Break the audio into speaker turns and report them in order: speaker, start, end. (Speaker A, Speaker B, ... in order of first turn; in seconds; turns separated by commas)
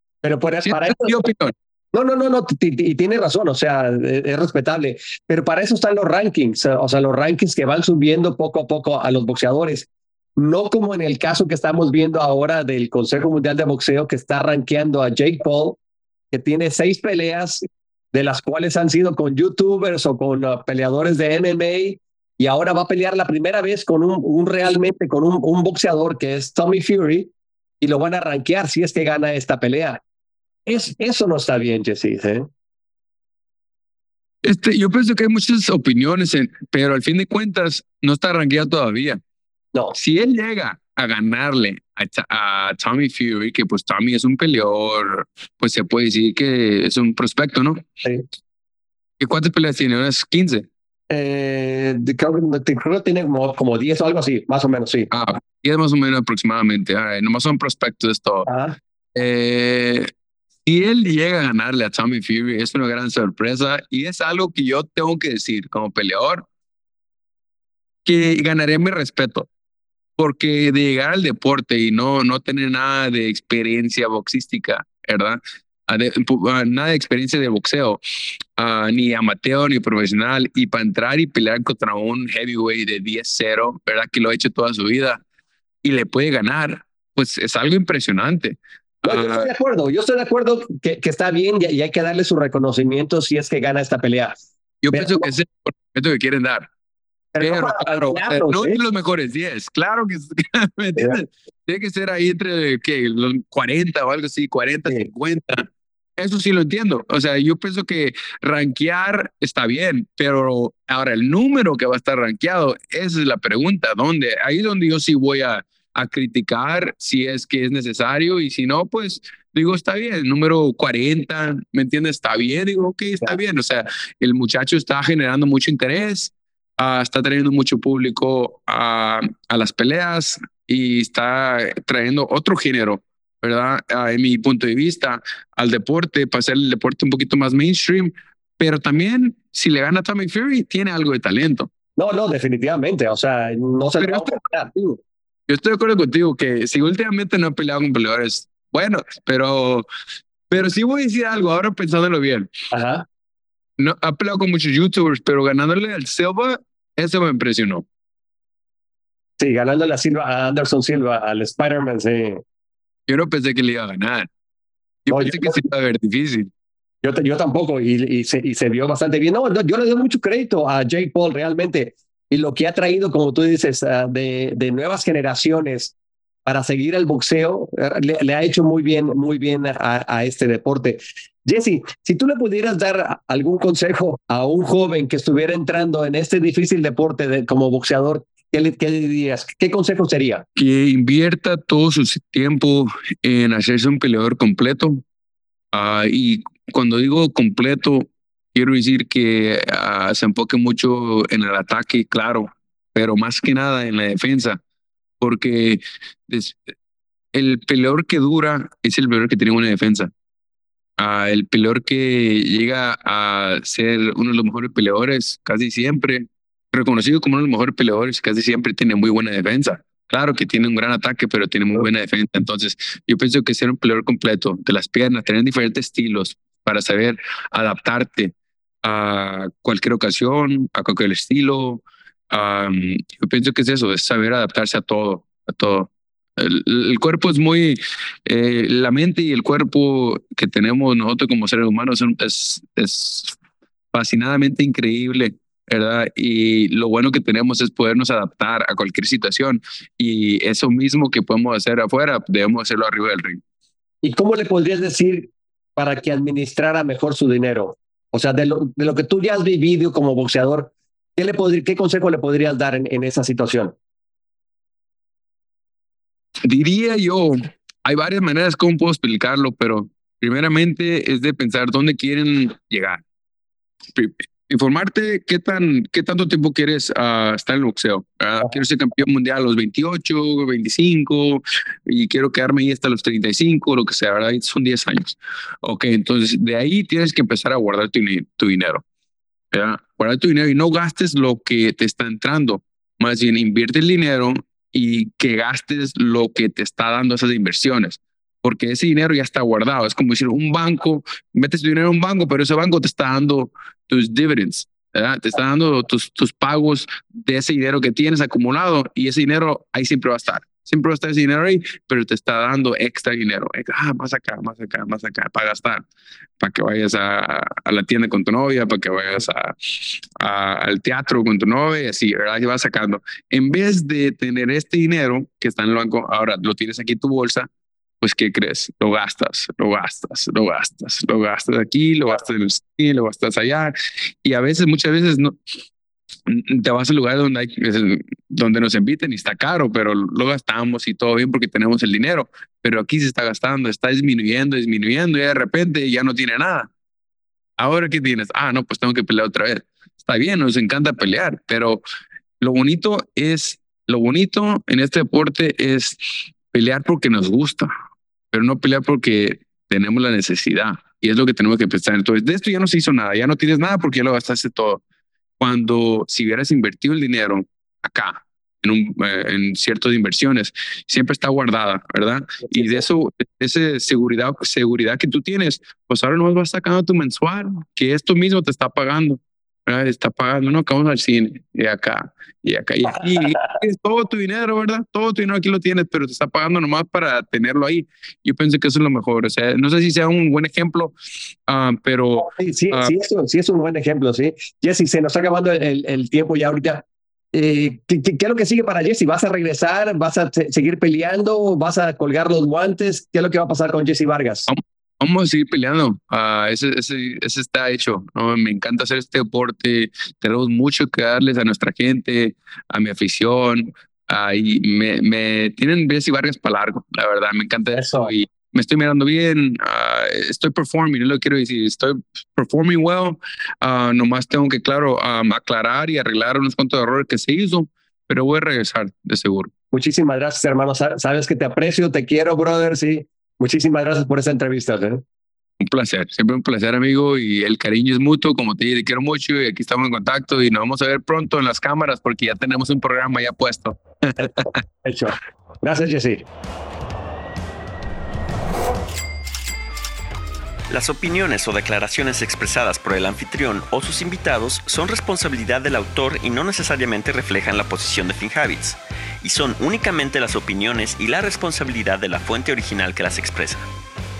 Speaker A: 0.2-1.2, Speaker B: 0.6-1.5, Speaker A: 1.9-15.8, Speaker A: 16.3-27.3, Speaker A: 27.8-30.0, Speaker A: 30.6-32.5, Speaker B: 34.4-39.2, Speaker B: 39.9-47.8, Speaker B: 49.2-50.7, Speaker A: 51.1-55.1, Speaker B: 55.1-58.5, Speaker A: 58.5-58.8, Speaker B: 59.1-60.1, Speaker B: 60.6-66.5, Speaker B: 68.0-69.5, Speaker B: 70.2-78.0, Speaker B: 78.5-85.2, Speaker B: 85.8-89.5, Speaker A: 89.0-94.4, Speaker B: 94.8-96.7, Speaker A: 94.9-95.3, Speaker A: 97.3-98.8, Speaker B: 97.4-141.7, Speaker A: 142.0-144.7, Speaker B: 144.0-149.8, Speaker B: 150.5-152.5, Speaker A: 152.7-153.1, Speaker B: 153.8-157.8, Speaker A: 159.4-162.4, Speaker B: 163.1-164.3, Speaker B: 165.0-166.5, Speaker A: 165.1-165.6, Speaker A: 167.0-175.9, Speaker A: 176.4-190.4, Speaker B: 190.6-195.0, Speaker B: 195.7-204.6, Speaker B: 205.2-206.7, Speaker B: 207.3-210.1, Speaker B: 211.0-243.4, Speaker B: 243.9-253.4, Speaker A: 254.0-263.7, Speaker B: 266.4-273.0, Speaker B: 273.9-288.8, Speaker B: 289.5-315.9, Speaker B: 316.4-327.5, Speaker B: 328.0-335.4, Speaker B: 336.2-346.7, Speaker B: 347.6-351.8, Speaker B: 352.4-357.7, Speaker B: 358.3-364.8, Speaker B: 365.4-390.9, Speaker A: 372.6-372.8, Speaker A: 383.0-383.5, Speaker B: 391.4-392.9, Speaker A: 392.2-404.5, Speaker B: 404.5-429.5, Speaker A: 417.7-418.1, Speaker A: 429.7-435.0, Speaker B: 435.6-444.5, Speaker A: 444.2-446.2, Speaker C: 450.7-463.6